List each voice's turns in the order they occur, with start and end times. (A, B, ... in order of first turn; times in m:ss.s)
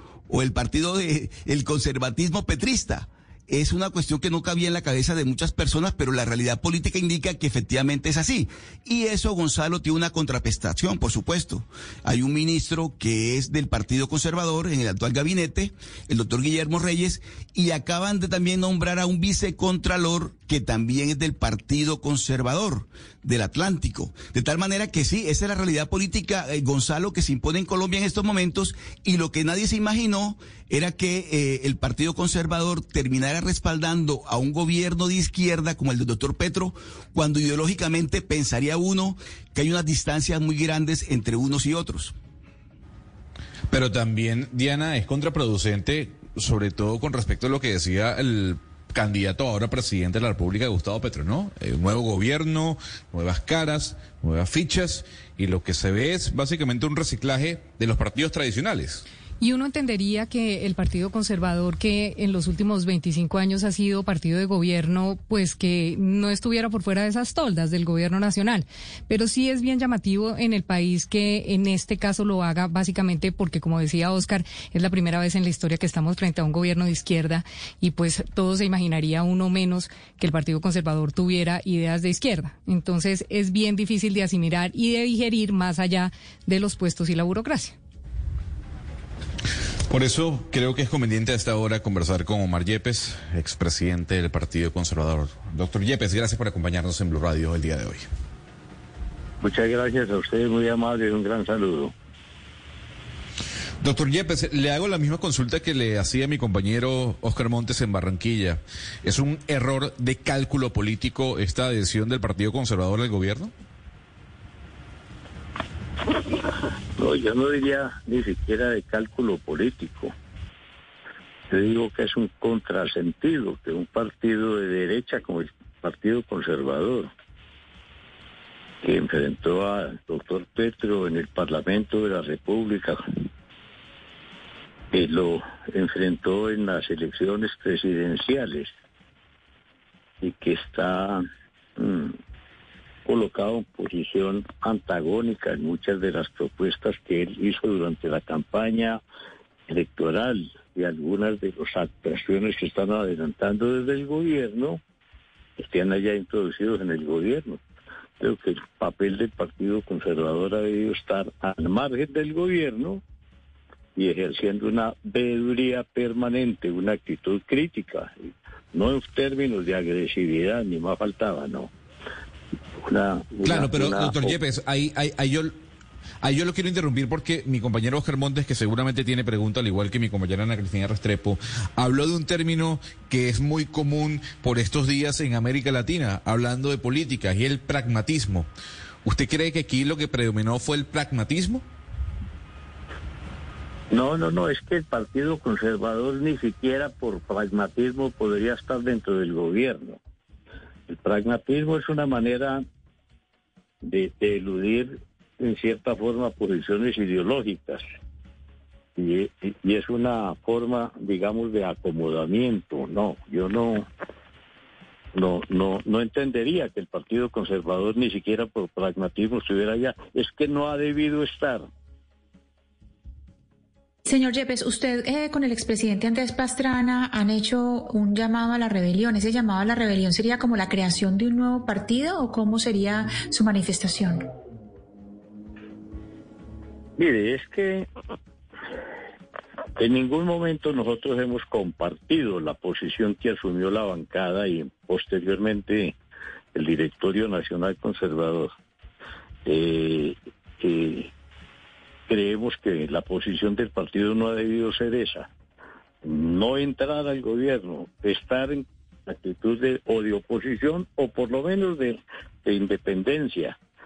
0:00.3-0:42.1 A
0:43.7-0:59.0 B
0:59.4-1:27.8 C
1:29.9-1:38.1 B
1:39.4-1:41.9 D
1:43.8-1:53.5 B
1:57.0-2:00.1 D
2:01.5-2:07.1 D
2:08.8-2:13.0 D
2:14.9-2:18.7 D
2:20.2-2:21.2 D
2:21.8-2:22.2 D
2:23.0-2:29.0 D
2:29.7-2:34.8 D
2:35.6-2:37.6 D
2:38.2-2:43.0 D
2:44.0-2:51.7 D
2:52.8-2:54.3 D
2:53.4-2:55.6 B
2:56.2-3:08.5 B
3:09.0-3:11.6 B
3:13.9-3:20.0 D
3:20.9-3:22.6 D
3:23.8-3:27.8 D
3:29.0-3:33.9 D
3:35.1-3:41.7 D
3:44.0-3:54.2 E
3:57.0-3:57.9 D
3:59.8-4:05.9 D
4:06.5-4:08.5 D
4:09.4-4:11.1 D
4:12.1-4:15.3 D
4:16.0-4:23.6 D